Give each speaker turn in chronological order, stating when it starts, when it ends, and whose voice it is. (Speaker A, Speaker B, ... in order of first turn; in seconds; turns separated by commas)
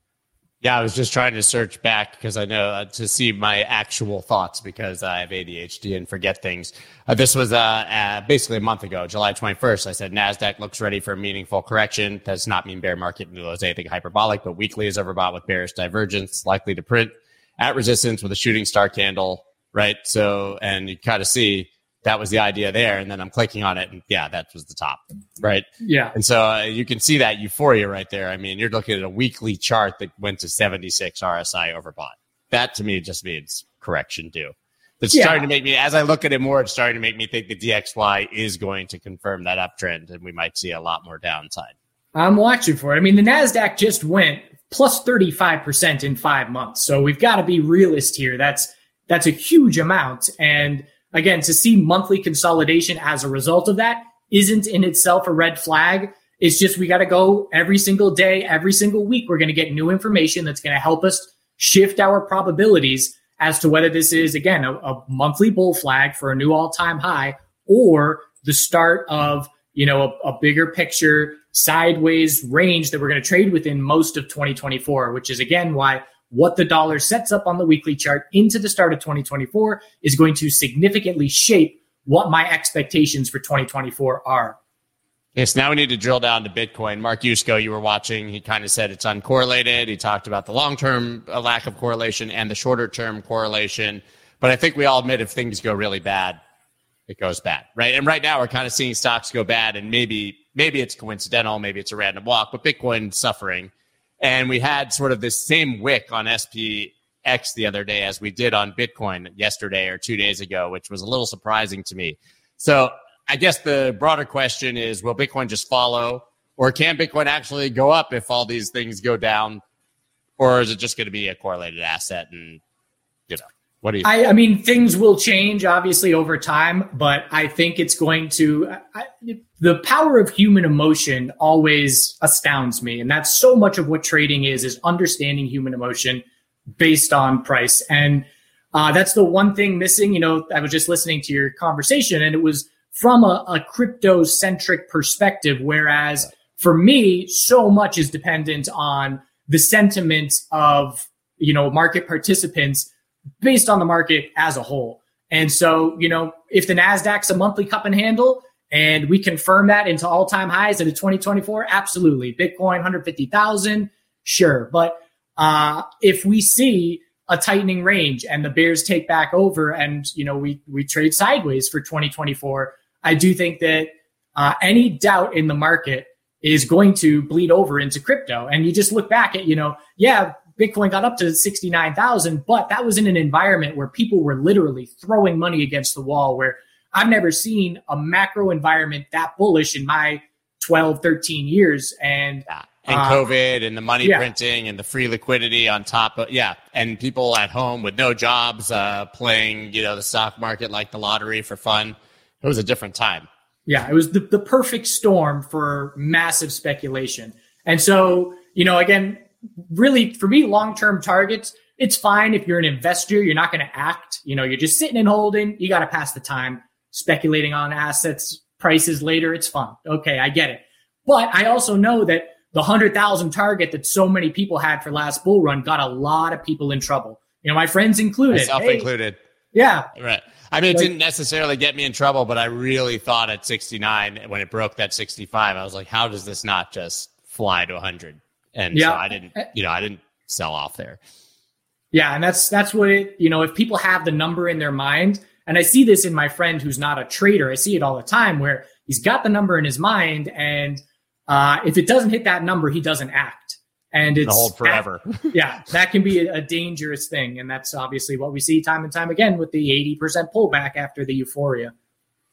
Speaker A: 0.6-41.7, Speaker B: 25.8-26.1, Speaker B: 35.1-35.4, Speaker B: 42.1-84.6, Speaker A: 85.4-96.4, Speaker A: 97.1-119.6, Speaker A: 120.4-122.6, Speaker A: 123.3-124.1, Speaker B: 124.0-136.2, Speaker B: 136.8-152.9, Speaker B: 153.4-193.2, Speaker A: 192.5-203.3, Speaker B: 203.7-228.9, Speaker A: 228.3-229.2, Speaker B: 229.5-229.9, Speaker A: 229.9-241.0, Speaker B: 238.7-239.4, Speaker B: 241.9-261.7, Speaker A: 254.2-255.3